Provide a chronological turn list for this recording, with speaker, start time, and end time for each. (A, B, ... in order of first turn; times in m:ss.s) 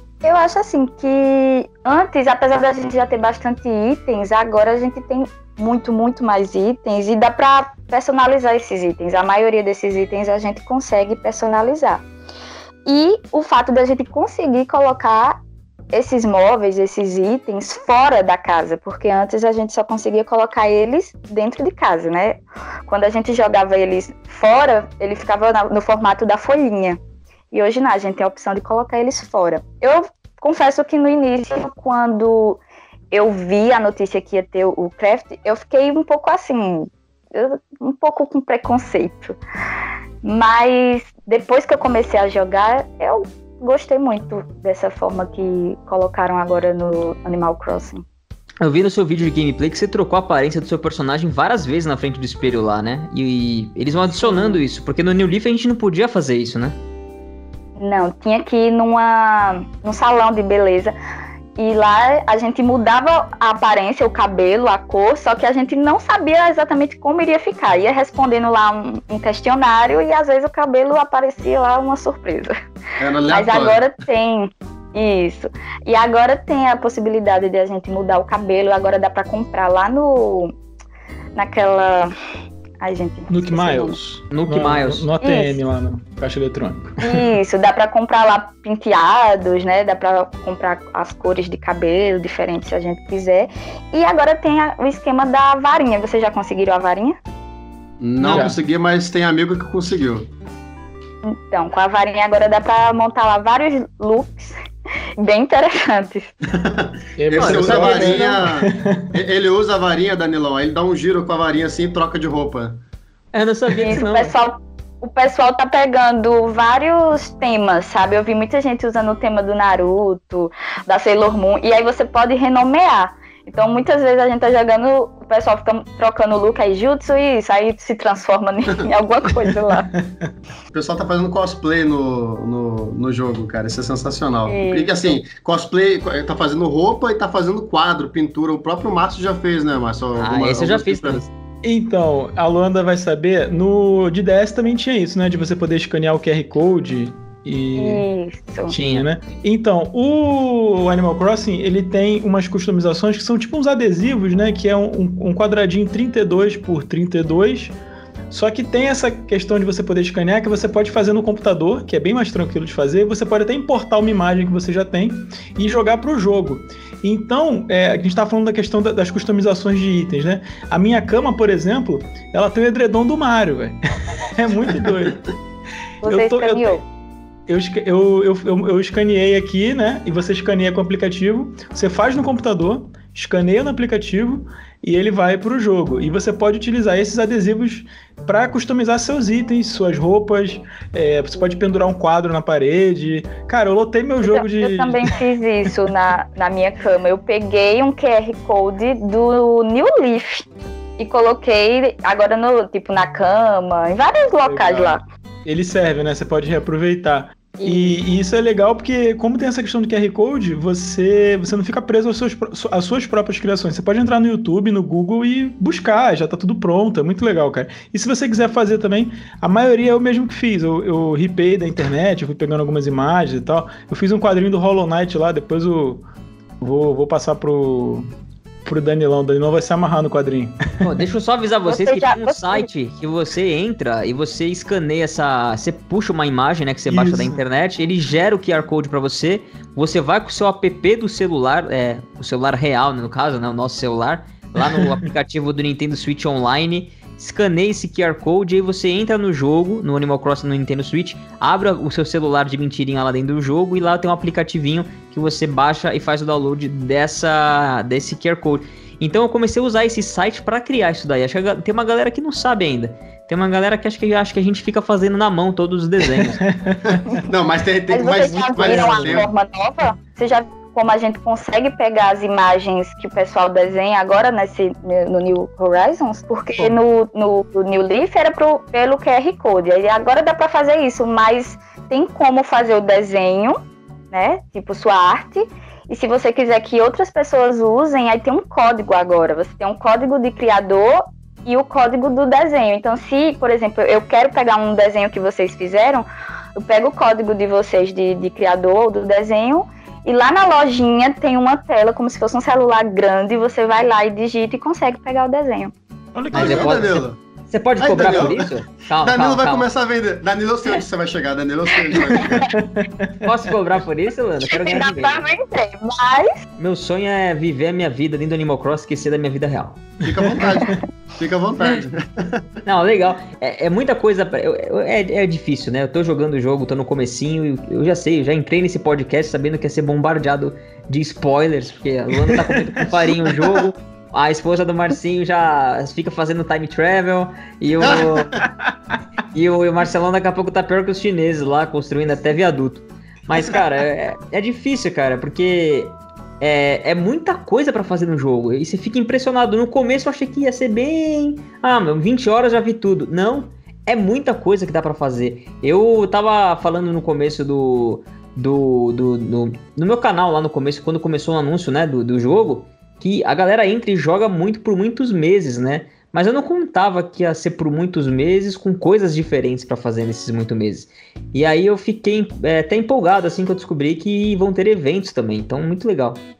0:00.2-0:12.0 A
0:12.9-0:15.4 A
0:15.9-0:27.0 A
0:27.5-0:32.6 A
0:33.1-0:39.4 A
0:40.2-0:48.0 A
0:48.6-0:56.8 B
0:54.1-0:54.6 A
0:57.8-1:00.9 A
1:01.6-1:12.5 A
1:13.0-1:13.8 C
1:13.3-1:20.5 A
1:21.4-1:22.1 A
1:22.8-1:24.0 A
1:23.3-1:27.3 D
1:24.3-1:25.1 B
1:25.2-1:25.6 A
1:27.0-1:37.2 A
1:38.0-1:40.3 C
1:38.2-1:38.6 B
1:38.3-1:38.6 D
1:41.2-1:44.5 A
1:45.2-1:46.3 A
1:46.5-1:52.8 C
1:47.2-1:49.1 D
1:47.3-1:48.3 B
1:53.3-1:54.4 B
1:53.7-2:09.9 A
2:09.5-2:10.3 D
2:10.7-2:21.3 C
2:14.5-2:15.2 A
2:20.2-2:21.3 B
2:21.6-2:28.0 D
2:27.8-2:28.7 A
2:28.7-2:37.8 D
2:28.7-2:29.1 B
2:38.3-2:55.2 D
2:54.7-2:55.2 C
2:56.0-2:56.8 A
2:56.0-2:56.8 D
2:57.5-3:15.1 D
3:14.2-3:20.5 A
3:21.0-3:25.0 A
3:24.4-3:46.0 D
3:27.6-3:28.0 A
3:46.6-3:48.1 D
3:48.6-3:50.6 D
3:50.8-4:26.4 B
3:51.7-3:52.7 A
3:56.9-3:57.4 D
4:26.4-4:27.2 D
4:26.8-4:29.3 C
4:27.9-4:43.6 A
4:28.6-4:29.2 D
4:44.1-4:56.1 A
4:56.6-5:05.7 A
5:06.2-5:06.9 D
5:06.3-5:07.2 C
5:06.3-5:09.7 B
5:07.8-5:12.5 C
5:12.3-5:13.2 D
5:13.2-5:15.2 B
5:14.4-5:16.4 A
5:16.6-5:19.9 B
5:20.0-5:22.5 C
5:20.2-5:20.6 D
5:22.6-5:38.4 B
5:32.3-5:32.9 D
5:37.8-5:38.4 C
5:39.3-6:16.2 B